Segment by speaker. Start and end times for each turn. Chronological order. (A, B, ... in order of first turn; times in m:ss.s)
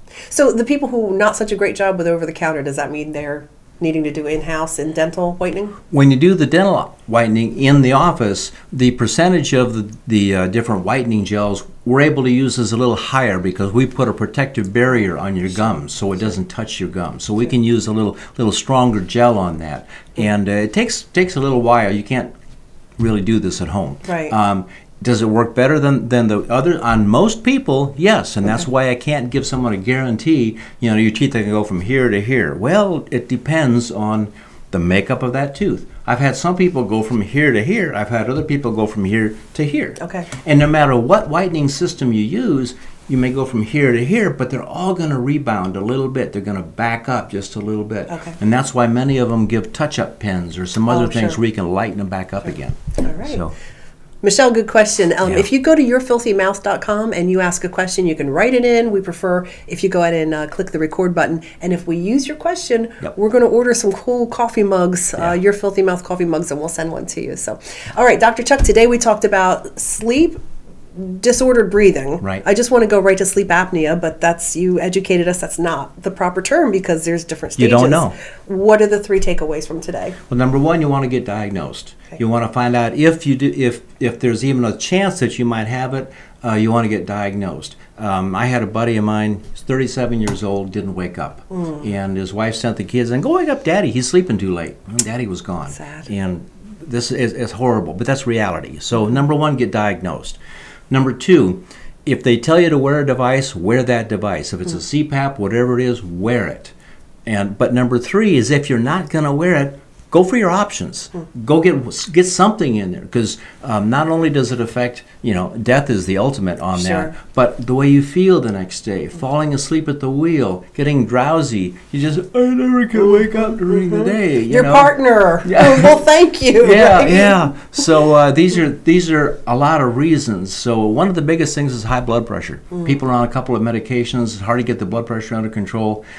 0:00.3-0:05.8 A
0:05.9-0:22.3 B
0:23.0-0:53.5 B
0:24.1-0:24.3 A
0:40.0-0:40.3 A
0:48.1-0:48.4 A
0:50.9-0:51.4 A
0:53.0-0:53.4 A
0:54.2-1:10.4 A
1:10.9-1:20.2 A
1:17.6-1:18.2 B
1:20.3-1:40.4 B
1:35.8-1:36.1 A
1:40.9-1:46.7 B
1:47.2-2:06.0 B
1:56.7-1:57.1 A
2:03.7-2:07.4 A
2:06.6-2:16.0 B